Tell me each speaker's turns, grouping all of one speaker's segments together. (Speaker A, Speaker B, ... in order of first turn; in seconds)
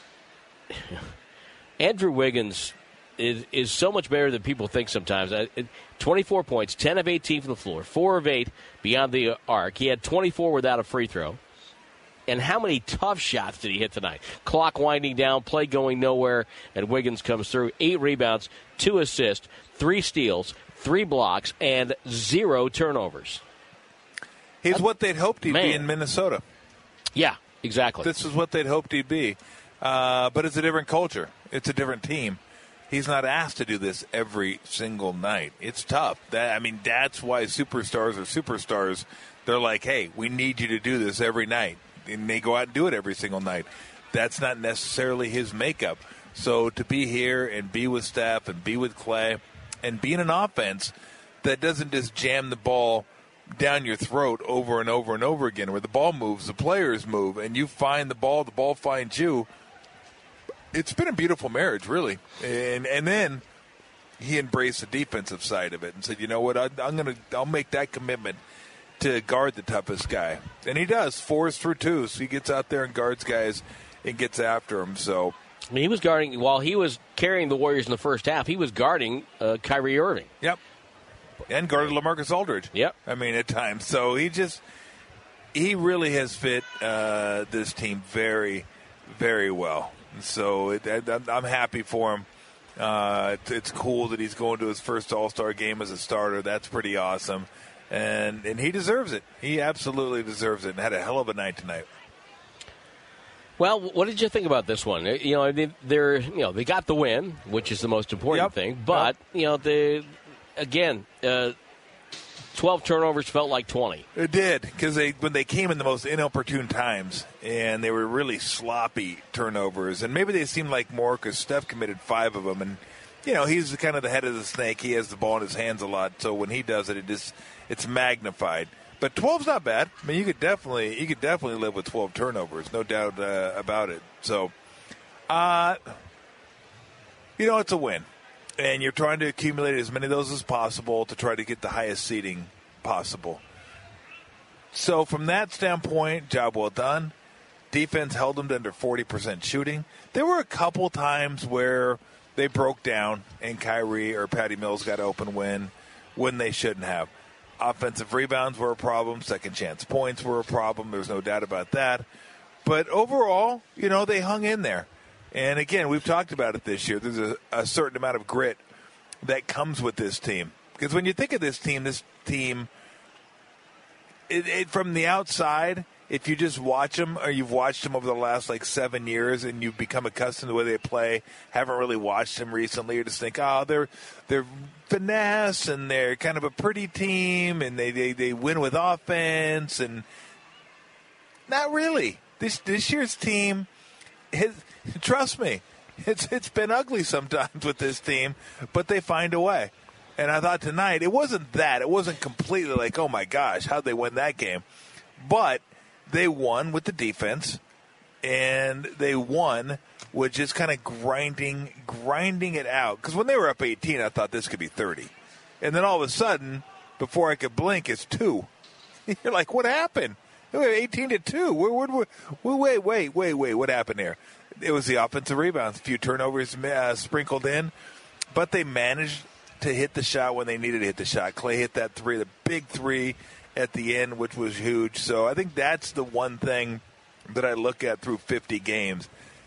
Speaker A: 0.7-1.1, 1.8-11.4, 12.3-23.4, 25.4-25.9, 27.1-28.1, 75.7-80.3, 103.6-111.5, 112.5-114.1
Speaker B: 24.6-26.4, 28.0-32.4, 32.9-59.5, 60.7-63.4, 64.2-68.4, 69.0-75.3, 81.5-84.6, 85.5-92.3, 92.8-101.9, 108.3-109.1, 114.2-134.5, 135.3-135.9, 137.4-138.1, 138.6-143.4, 144.7-147.1, 147.7-162.1, 162.7-168.6, 169.2-172.7, 174.3-190.1, 191.5-193.7, 194.3-204.7, 205.2-207.6, 208.2-218.5, 219.1-227.7, 228.3-239.1